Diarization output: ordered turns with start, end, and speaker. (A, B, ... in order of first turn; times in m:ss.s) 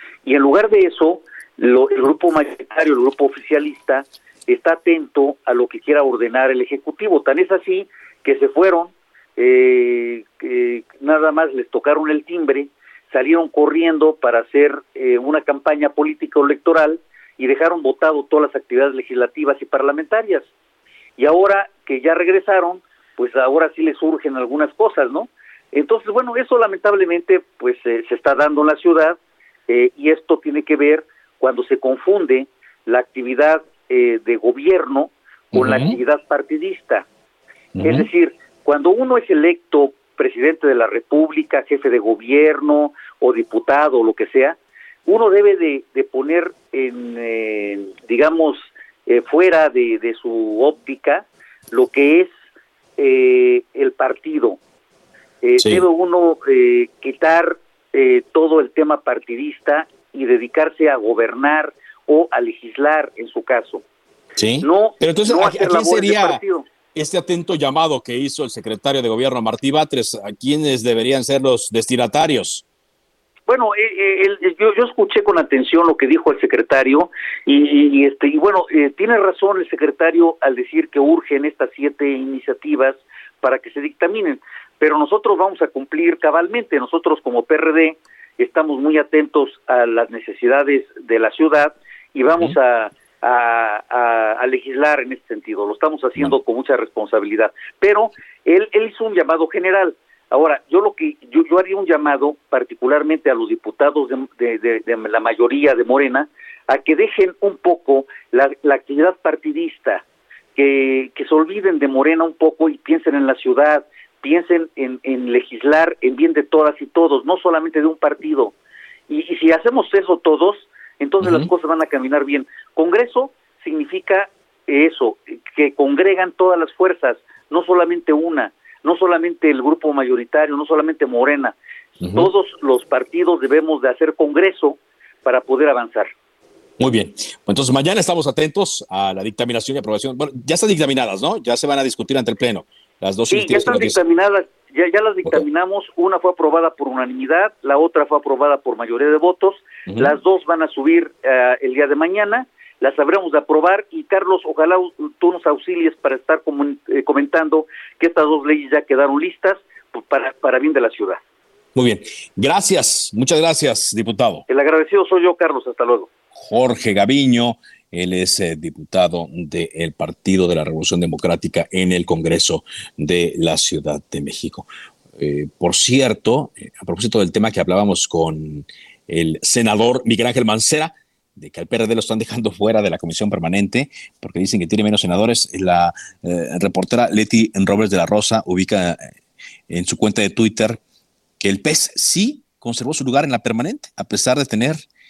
0:00.2-0:20.5 A
0:21.2-0:37.1 A
0:35.5-0:36.0 B
0:37.8-0:38.1 B
0:37.8-0:52.3 A
0:53.0-0:54.6 A
0:55.4-1:03.8 A
1:04.4-1:06.4 B
1:04.6-1:06.7 A
1:07.0-1:12.6 B
1:13.5-1:50.0 A
1:50.6-1:58.5 A
1:59.1-2:11.6 A
2:01.2-2:01.5 B
2:12.0-2:12.3 B
2:12.1-2:16.1 A
2:16.8-2:24.0 B
2:23.3-2:41.2 A
2:29.9-2:30.1 B
2:41.8-2:44.4 B
2:44.5-2:46.1 A
2:46.3-3:09.1 B
3:09.7-3:10.8 B
3:11.4-3:14.8 B